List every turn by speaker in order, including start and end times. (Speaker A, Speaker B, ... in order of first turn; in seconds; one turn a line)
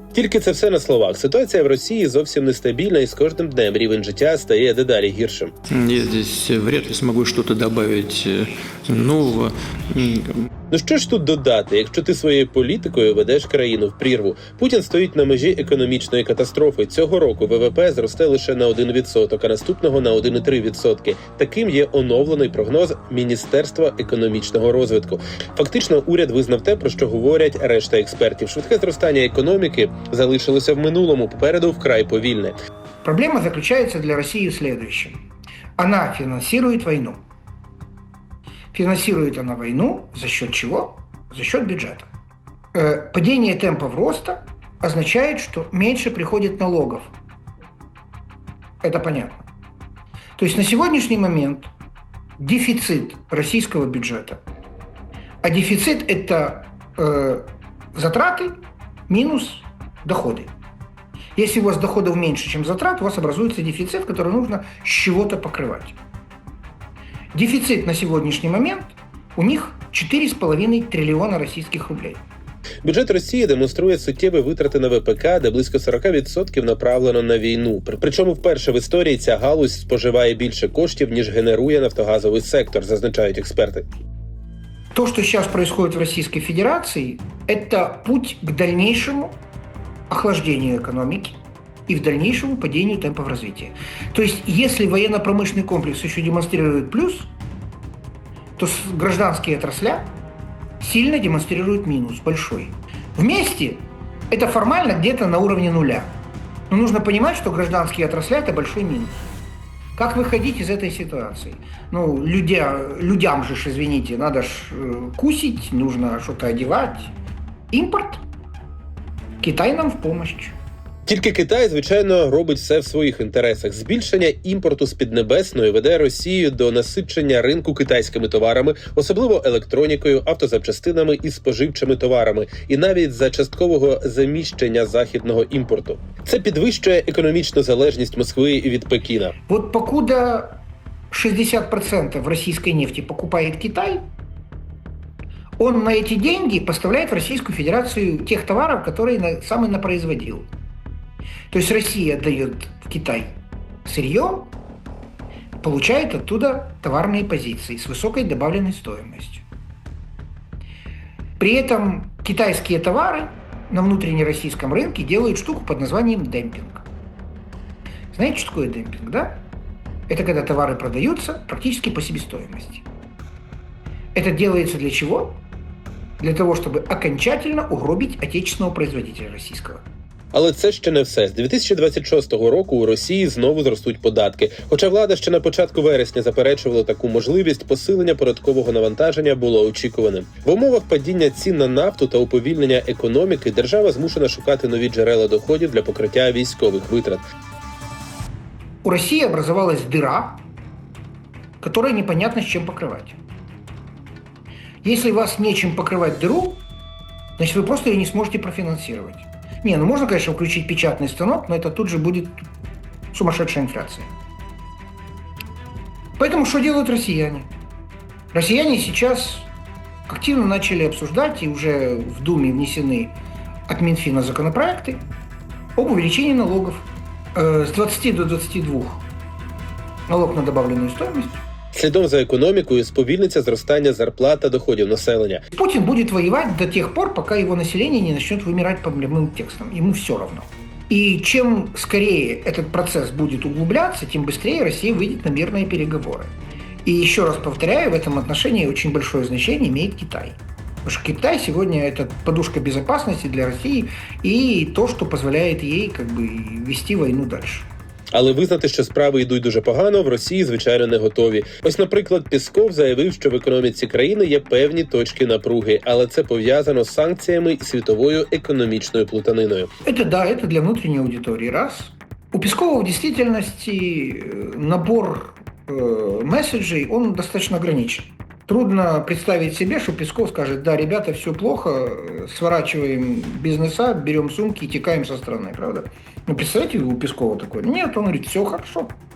Speaker A: 0.1-5.5
Speaker B: 5.7-10.4
Speaker A: 10.7-32.6
Speaker C: 33.0-35.2
Speaker C: 35.8-37.2
Speaker C: 38.7-42.1
Speaker C: 42.7-47.1
Speaker C: 48.8-49.4
Speaker C: 50.4-51.7
Speaker C: 52.4-54.4
Speaker C: 55.4-58.6
Speaker C: 59.1-60.5
Speaker C: 61.4-66.0
Speaker C: 67.3-72.2
Speaker A: 72.8-83.9
Speaker C: 84.9-89.4
Speaker C: 90.1-97.3
Speaker C: 98.6-100.1
Speaker C: 100.8-106.1
Speaker C: 106.7-109.2
Speaker C: 110.0-117.1
Speaker C: 117.7-118.2
Speaker C: 119.4-120.5
Speaker A: 121.1-139.3
Speaker C: 139.5-144.1
Speaker C: 145.6-150.5
Speaker C: 151.5-154.5
Speaker C: 155.6-159.4
Speaker C: 161.4-166.8
Speaker C: 168.1-169.4
Speaker C: 170.1-172.8
Speaker C: 174.2-175.4
Speaker C: 176.2-179.8
Speaker A: 180.3-197.2
Speaker C: 198.8-200.4
Speaker C: 201.6-203.2
Speaker C: 204.8-206.6
Speaker C: 207.4-212.4
Speaker C: 213.1-214.1
Speaker C: 216.2-217.5
Speaker C: 218.3-219.5
Speaker C: 220.1-223.2
Speaker C: 223.7-225.1
Speaker C: 225.8-229.0
Speaker C: 230.1-231.4
Speaker A: 231.7-235.5
Speaker C: 235.5-246.3
Speaker C: 246.8-257.7
Speaker A: 258.1-269.7
Speaker C: 269.8-289.0